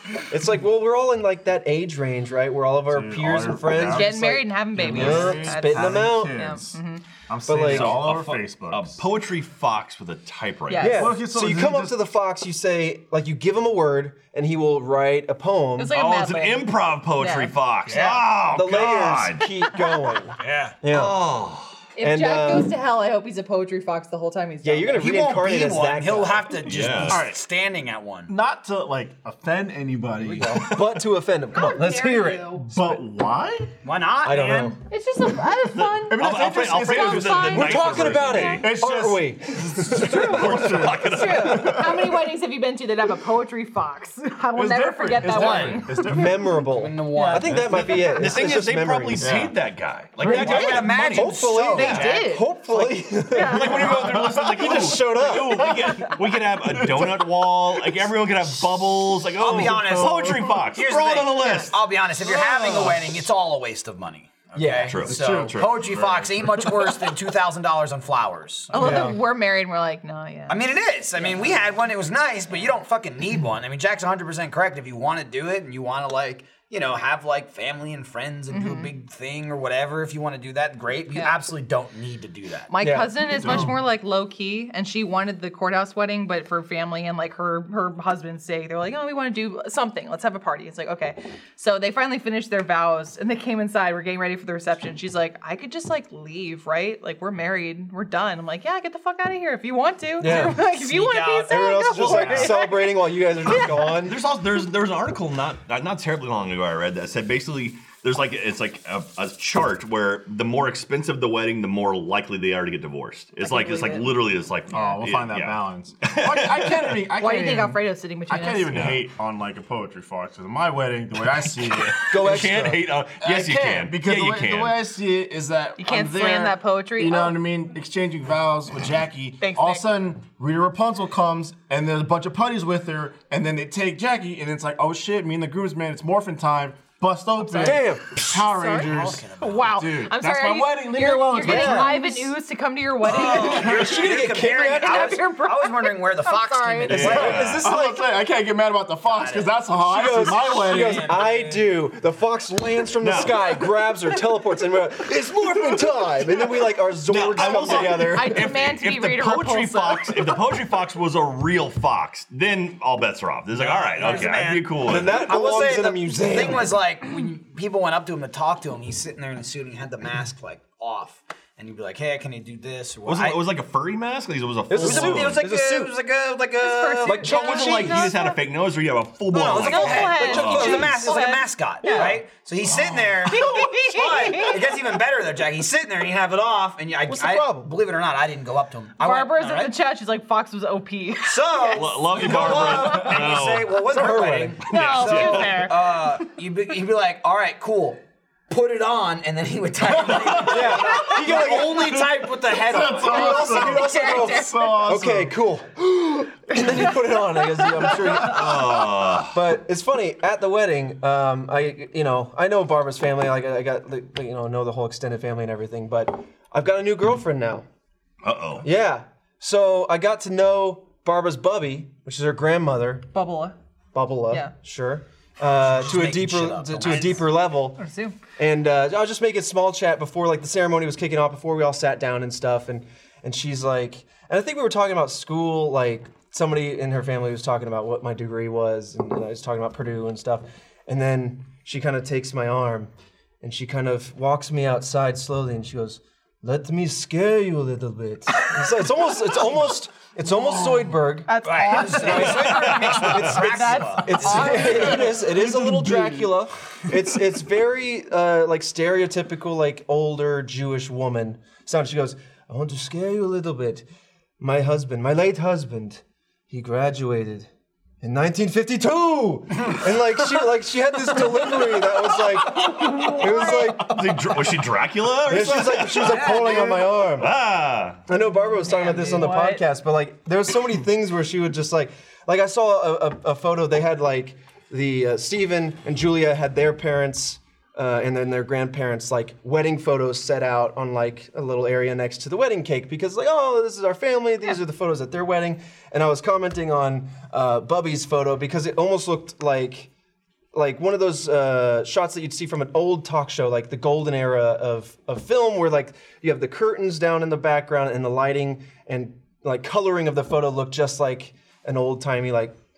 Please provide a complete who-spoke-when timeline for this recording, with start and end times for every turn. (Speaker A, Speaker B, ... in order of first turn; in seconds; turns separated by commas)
Speaker A: 0.3-6.5, Speaker B: 2.9-4.1, Speaker C: 3.9-7.0, Speaker B: 4.7-9.0, Speaker A: 7.5-8.0, Speaker D: 7.6-11.0, Speaker C: 10.7-11.1, Speaker B: 10.8-12.0, Speaker A: 10.8-15.9, Speaker C: 15.8-18.1, Speaker D: 15.9-19.5, Speaker E: 17.9-18.2, Speaker A: 18.5-21.2, Speaker E: 20.4-20.8, Speaker D: 20.9-21.7, Speaker C: 21.9-25.1, Speaker A: 22.0-22.7, Speaker A: 24.6-26.6, Speaker E: 24.9-28.3, Speaker D: 26.6-27.2, Speaker B: 27.1-27.4, Speaker B: 28.3-31.0, Speaker E: 30.2-30.6, Speaker A: 30.4-33.0, Speaker C: 31.5-32.6, Speaker B: 32.6-33.7, Speaker E: 33.8-34.8, Speaker A: 34.2-34.8, Speaker C: 34.9-38.6, Speaker D: 35.7-38.7, Speaker B: 36.1-38.0, Speaker A: 37.5-40.9, Speaker B: 38.6-42.0, Speaker D: 39.9-42.0, Speaker C: 41.0-46.1, Speaker B: 44.5-46.6, Speaker E: 45.2-45.8, Speaker A: 46.0-49.4, Speaker E: 46.6-47.7, Speaker C: 47.1-47.5, Speaker B: 47.5-48.1, Speaker D: 47.7-52.0, Speaker B: 49.2-49.5, Speaker B: 50.2-51.0, Speaker E: 50.2-52.2, Speaker A: 50.3-55.7, Speaker C: 51.7-52.5, Speaker C: 53.3-53.9, Speaker D: 53.3-61.9, Speaker B: 53.8-56.1, Speaker B: 56.7-57.3, Speaker E: 59.4-69.0, Speaker B: 59.5-60.6, Speaker B: 62.2-63.1, Speaker A: 64.5-65.4, Speaker D: 64.9-65.3, Speaker B: 65.0-67.1, Speaker C: 68.7-70.6, Speaker A: 68.7-69.2, Speaker E: 70.5-82.7, Speaker C: 78.5-78.9, Speaker C: 81.1-81.4, Speaker C: 82.7-104.0, Speaker A: 82.8-83.7, Speaker B: 83.4-83.7, Speaker A: 100.2-100.6, Speaker E: 100.6-102.3, Speaker A: 101.5-104.2, Speaker B: 102.1-102.5, Speaker D: 103.6-117.0, Speaker C: 113.4-114.2, Speaker C: 114.7-115.0, Speaker B: 114.7-122.2, Speaker C: 117.1-118.8, Speaker D: 118.7-119.0, Speaker D: 121.7-124.8, Speaker A: 122.1-122.8, Speaker B: 123.2-142.2, Speaker C: 125.8-127.4, Speaker C: 129.4-129.9, Speaker C: 137.4-137.8, Speaker A: 137.6-138.4, Speaker C: 138.4-147.3, Speaker E: 138.7-139.7, Speaker A: 141.4-142.2, Speaker E: 143.0-147.6, Speaker A: 143.1-145.3, Speaker D: 146.9-147.6, Speaker B: 146.9-151.3, Speaker A: 146.9-148.1, Speaker E: 149.0-149.7, Speaker A: 149.9-158.5, Speaker E: 150.2-151.7, Speaker D: 153.0-153.6, Speaker D: 157.1-165.3, Speaker B: 157.4-157.8, Speaker C: 158.0-160.4, Speaker E: 163.5-173.4, Speaker A: 164.8-166.8, Speaker D: 173.0-175.4, Speaker A: 174.7-175.9, Speaker E: 174.8-177.4, Speaker C: 176.6-178.4, Speaker A: 177.0-178.1, Speaker D: 177.2-181.0, Speaker E: 179.3-189.7, Speaker C: 179.5-182.2, Speaker A: 179.9-181.2, Speaker C: 183.2-184.7, Speaker A: 187.0-187.7, Speaker C: 189.0-191.9, Speaker E: 191.3-203.5, Speaker D: 191.8-193.8, Speaker A: 193.8-194.6, Speaker D: 194.7-195.7, Speaker C: 194.7-195.9, Speaker B: 199.9-205.4, Speaker A: 200.4-202.2, Speaker A: 202.9-217.7, Speaker C: 203.1-204.9, Speaker C: 206.5-206.9, Speaker C: 207.5-208.0, Speaker D: 208.2-209.4, Speaker D: 218.2-218.7, Speaker A: 218.6-223.1, Speaker C: 223.1-223.5, Speaker A: 223.9-227.8, Speaker E: 225.5-227.2, Speaker C: 226.8-227.2, Speaker C: 227.8-228.2, Speaker A: 228.4-263.8, Speaker C: 251.2-255.0, Speaker E: 251.4-254.7, Speaker D: 252.6-253.0, Speaker B: 254.2-256.3, Speaker A: 264.4-267.5, Speaker A: 268.0-274.1, Speaker D: 272.7-278.0, Speaker C: 272.8-273.6, Speaker A: 275.2-277.3, Speaker E: 276.2-276.7, Speaker A: 278.1-299.9, Speaker C: 278.5-279.6, Speaker A: 300.5-312.5